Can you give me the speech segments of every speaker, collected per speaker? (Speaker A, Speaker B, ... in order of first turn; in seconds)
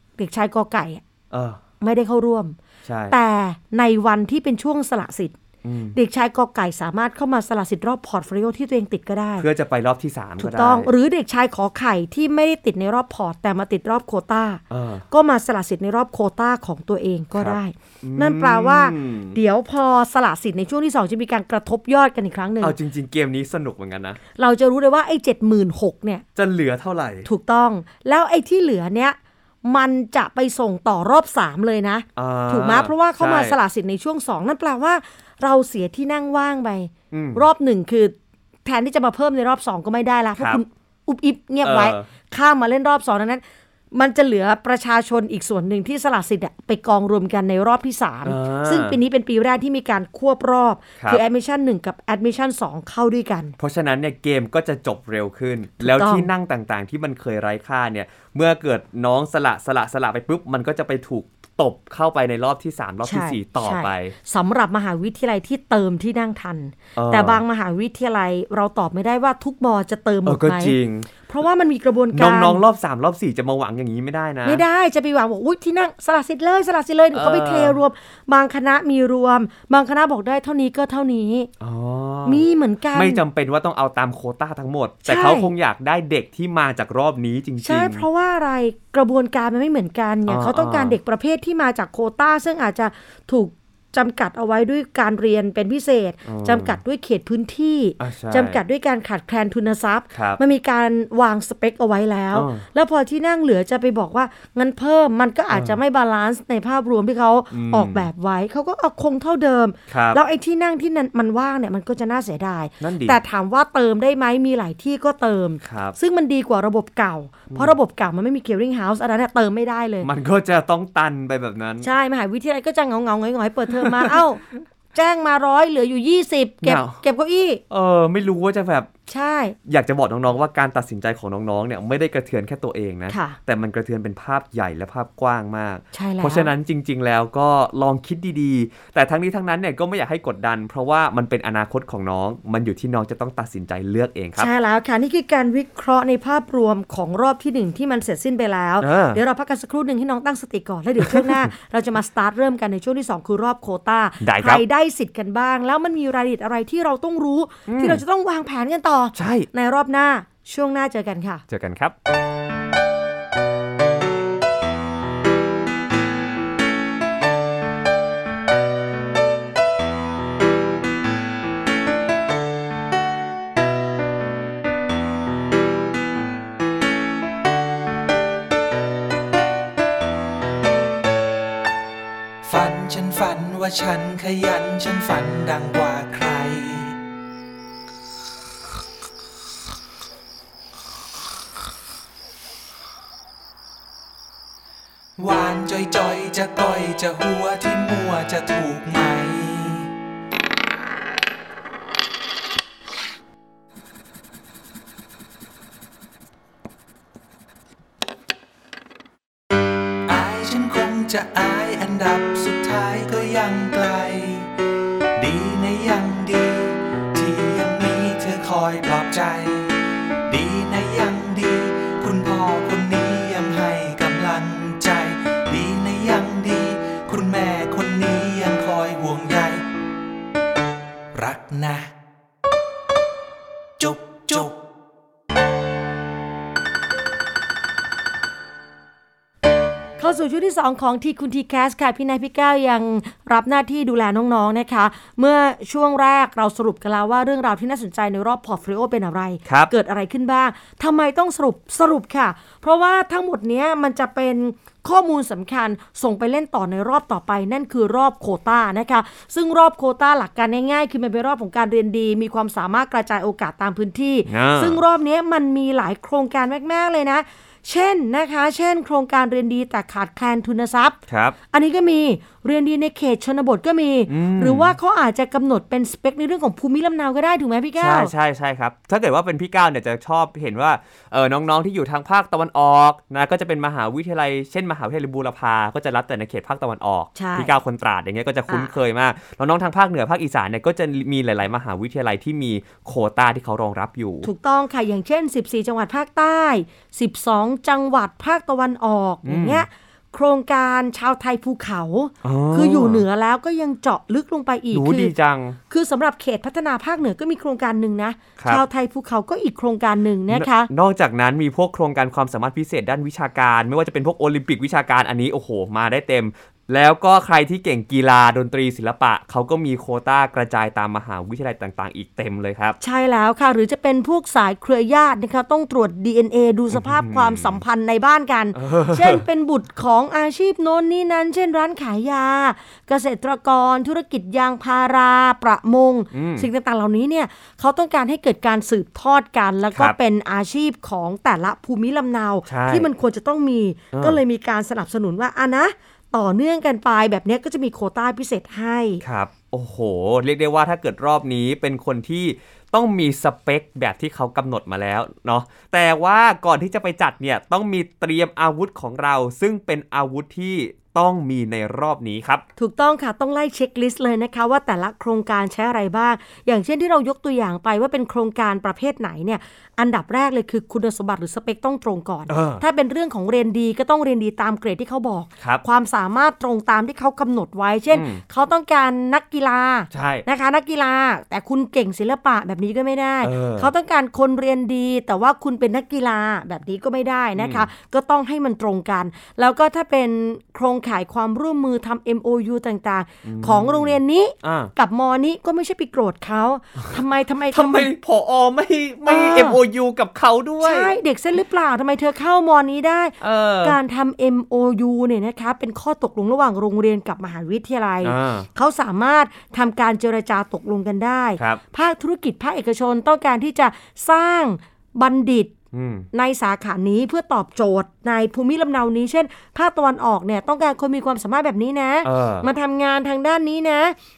Speaker A: 0.2-1.0, 1.8-2.6, 3.1-5.4, 5.9-9.5, 10.4-22.8, 24.4-26.2, 27.2-38.1, 38.6-53.5, 55.8-56.3, 63.0-72.6, 74.4-81.5, 82.3-83.2, 85.1-85.5, 87.6-120.1, 121.8-124.4, 124.9-127.6, 129.1-129.6, 133.1-133.4, 135.9-136.5, 144.4-161.4, 240.0-271.0, 271.5-278.1, 287.2-287.5, 294.2-305.1, 305.7-310.7, 322.8-349.0, 362.6-397.9, 399.1-399.6, 400.6-415.6, 416.1-424.0
Speaker B: 1.3-1.6, 2.9-3.1, 5.6-6.0, 9.4-10.9, 14.7-15.1, 17.3-19.4, 22.6-24.2, 26.4-27.3, 32.2-33.6, 37.1-37.5, 41.6-42.1, 48.2-49.0, 53.6-64.2, 67.0-67.4, 70.3-71.1, 72.1-74.6, 77.1-77.8, 81.6-88.0, 90.3-91.0, 96.3-96.8, 98.0-98.6, 100.1-100.4, 102.3-102.6, 105.5-105.8, 107.5-108.1, 109.9-110.2, 112.8-113.2, 115.6-116.0, 120.0-121.9, 123.8-124.2, 126.6-127.0, 127.7-128.9, 129.7-144.5, 148.8-149.2, 151.1-151.5, 154.2-154.6, 157.7-158.0, 159.2-159.5, 161.5-161.9, 249.5-249.7, 264.3-264.8, 271.1-271.4, 274.1-274.8, 277.8-294.3, 299.2-299.7, 302.2-303.1, 304.7-305.6, 308.4-308.6, 310.3-322.8, 326.7-327.6, 328.6-329.2, 336.1-336.5, 342.5-342.9, 343.9-344.2, 349.0-362.4, 372.3-372.6, 377.9-378.2, 379.9-380.2, 383.2-383.7, 387.4-387.7, 393.2-394.7, 397.5-400.9, 403.2-403.8, 408.0-408.5, 415.7-416.1, 422.0-422.5
Speaker C: 182.4-187.0, 195.2-199.9, 210.1-214.5, 215.2-219.8, 220.3-229.7, 231.1-231.9, 233.8-234.6